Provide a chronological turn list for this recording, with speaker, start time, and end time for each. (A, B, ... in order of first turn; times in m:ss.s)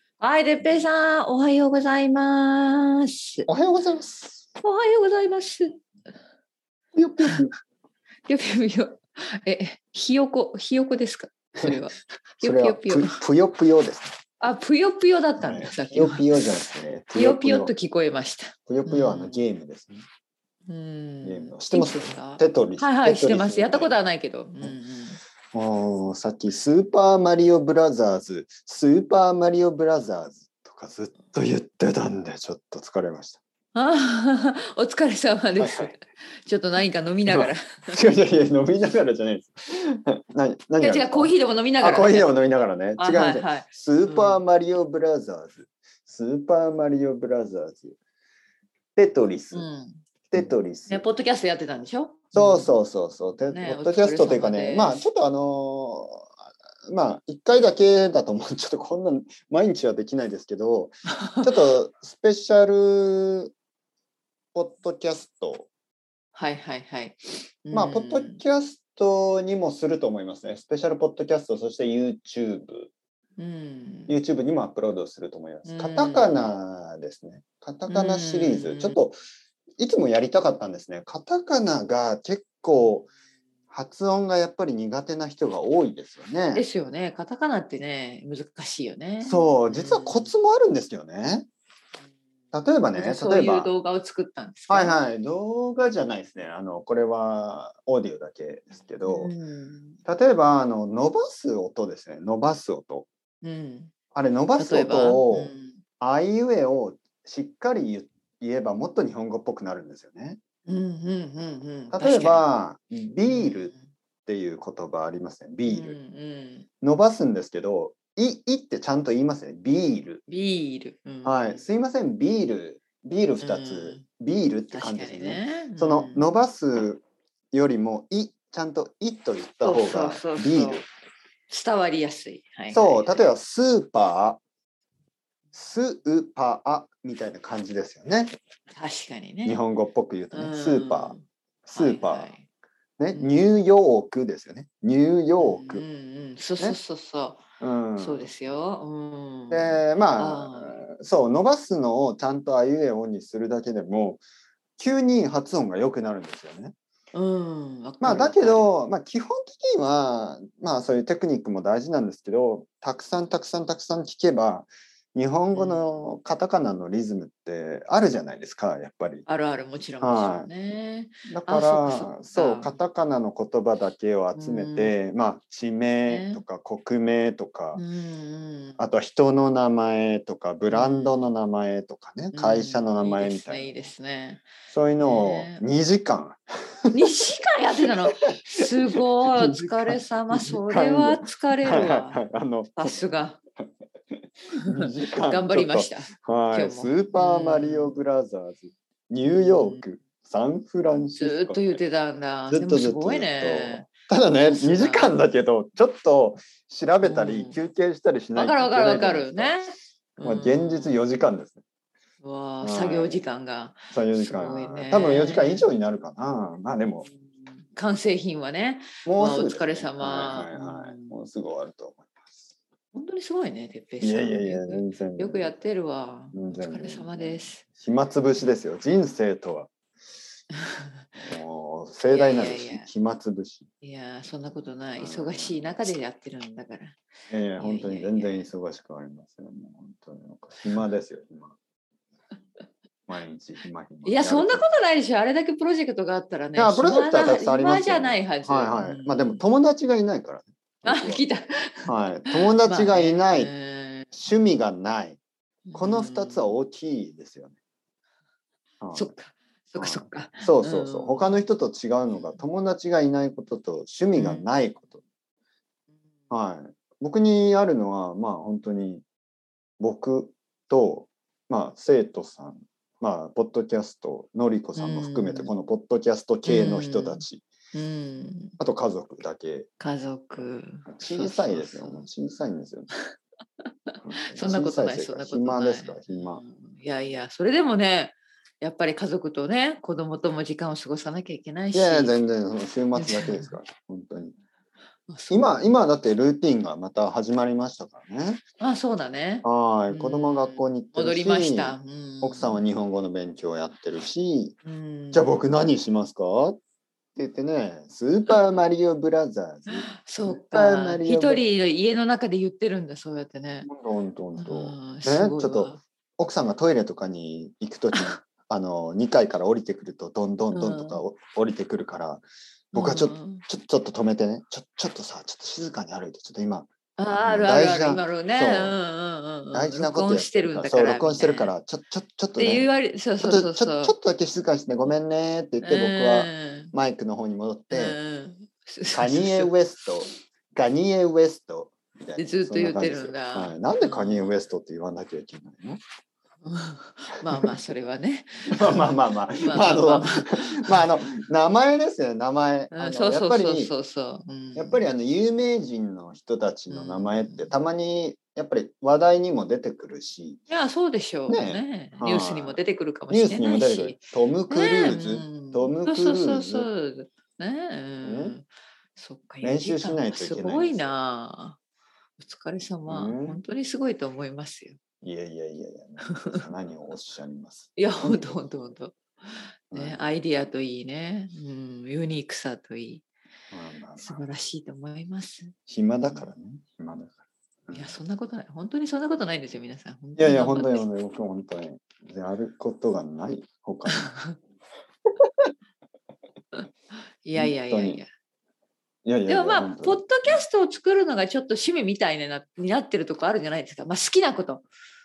0:00.2-0:03.5 A
0:03.5-0:04.4 B
0:04.6-0:05.7 A
0:07.0-0:07.5 B
0:08.3-0:13.2 A
0:12.4-0:14.2 B
0:14.4-0:16.6 A
0:15.4-0:17.7 B
0:17.1-0:19.4 A
0:18.7-0:20.0 B
0:20.7-0:25.2 A
0:21.2-0:23.9 B
0:25.5-0:33.4 B
0:33.8-0:38.0 A
0:35.6-0:35.9 B
0:37.3-0:48.0 B
0:40.8-0:42.4 A
0:43.0-0:44.4 A
0:49.0-0:49.7 B
0:49.5-0:52.7 A
0:50.3-0:51.1 B
0:52.3-0:56.3 B
0:53.5-0:55.1 A
0:56.9-1:03.5 B
1:04.5-1:05.7 B
1:06.3-1:08.4 A
1:07.7-1:12.9 B
1:13.4-1:14.2 A
1:14.1-1:19.2 B
1:15.7-1:16.5 A
1:17.9-1:19.0 A
1:19.8-1:23.1 B
1:23.7-1:26.6 B
1:26.6-1:30.3 A
1:29.2-1:31.5 B
1:32.5-1:33.7 B
1:33.0-1:35.0 A
1:34.7-1:39.3 B
1:39.0-1:40.0 A
1:40.1-1:43.1 B
1:43.4-1:43.9 A
1:44.2-1:50.4 B
1:44.6-1:45.8 A
1:50.7-1:52.4 A
1:51.9-1:53.7 B
1:53.2-1:53.8 A
1:54.3-1:56.0 B
1:55.7-1:56.7 A
1:56.8-2:00.2 B
2:00.3-2:01.6 A
2:01.2-2:10.9 B
2:03.4-2:04.0 A
2:04.7-2:06.4 A
2:09.6-2:10.8 A
2:11.5-2:13.2 A
2:12.7-2:14.4 B
2:15.5-2:18.3 B
2:18.7-2:19.6 A
2:19.4-2:22.3 B
2:20.3-2:22.5 A
2:23.0-2:25.8 B
2:23.1-2:23.4 A
2:25.4-2:27.4 A
2:27.6-2:28.3 B
2:28.0-2:30.8 A
2:29.5-2:34.2 B
2:34.8-2:36.7 B
2:37.1-2:38.7 A
2:38.0-2:49.3 B
2:45.5-2:45.8 A
2:49.3-2:52.8 A
2:50.0-2:50.5 B
2:51.3-2:57.8 B
2:54.4-2:55.0 A
2:56.1-2:56.4 A
2:57.8-2:58.8 A
2:58.8-3:03.7 B
3:00.7-3:01.3 A
3:02.3-3:05.6 A
3:04.7-3:07.1 B
3:06.9-3:12.2 A
3:08.1-3:13.0 B
3:12.8-3:13.4 A
3:14.6-3:21.8 B
3:14.8-3:18.0 A
3:19.2-3:19.8 A
3:21.1-3:25.2 A
3:22.5-3:29.6 B
3:27.0-3:27.6 A
3:28.4-3:31.1 A
3:30.2-3:31.6 B
3:32.2-3:35.7 A
3:32.6-3:33.2 B
3:33.9-3:37.1 B
3:37.1-3:41.2 A
3:39.0-3:42.4 B
3:42.9-3:47.6 A
3:44.0-3:45.6 B
3:46.3-3:49.7 B
3:51.2-3:53.7 B
3:52.1-3:52.9 A
3:53.8-3:57.0 A
3:55.0-3:55.8 B
3:57.3-4:01.6 B
3:57.6-3:58.5 A
4:03.1-4:04.6 B
4:04.0-4:09.4 A
4:06.6-4:11.3 B
4:10.8-4:14.2 A
4:11.9-4:13.5 B
4:14.1-4:15.2 B
4:15.7-4:16.6 A
4:15.8-4:17.6 B
4:18.8-4:19.1 B
4:18.9-4:21.3 A
4:19.8-4:25.0 B
4:22.1-4:22.4 A
4:24.2-4:24.5 A
4:26.3-4:29.0 B
4:29.8-4:37.4 B
4:34.8-4:35.5 A
4:36.4-4:38.6 A
4:38.6-4:39.7 B
4:39.8-4:42.1 A
4:40.9-4:42.9 B
4:44.0-4:46.4 B
4:44.3-4:52.2 A
4:51.7-4:54.4 B
4:53.0-4:53.6 A
4:55.1-4:55.8 A
4:55.3-4:58.4 B
4:58.6-5:02.6 A
4:59.4-5:04.6 B
5:04.6-5:05.4 A
5:05.1-5:06.6 B
5:07.2-5:11.4 B
5:09.7-5:13.7 A
5:13.7-5:28.8 B
5:14.4-5:15.8 A
5:20.5-5:21.0 A
5:22.7-5:23.4 A
5:27.0-5:31.5 A
5:29.5-5:38.0 B
5:32.4-5:33.9 A
5:35.6-5:36.7 A
5:37.7-5:39.6 A
5:38.9-5:45.8 B
5:42.2-5:44.3 A
5:46.4-5:50.8 A
5:48.5-5:53.7 B
5:52.7-5:54.9 A
5:54.6-6:00.4 B
5:56.7-5:57.5 A
6:00.5-6:11.6 A
6:01.3-6:06.7 B
6:08.0-6:08.4 B
6:09.4-6:10.9 B
6:12.2-6:14.8 A
6:12.9-6:13.4 B
6:15.0-6:18.4 B
6:16.0-6:16.4 A
6:17.8-6:23.0 A
6:19.7-6:20.0 B
6:23.5-6:24.2 B
6:24.0-6:25.5 A
6:25.7-6:28.0 B
6:27.7-6:30.9 A
6:30.2-6:34.1 B
6:33.9-6:34.4 A
6:37.2-6:38.1 A
6:37.4-6:38.0 B
6:39.0-6:40.4 B
6:39.3-6:44.6 A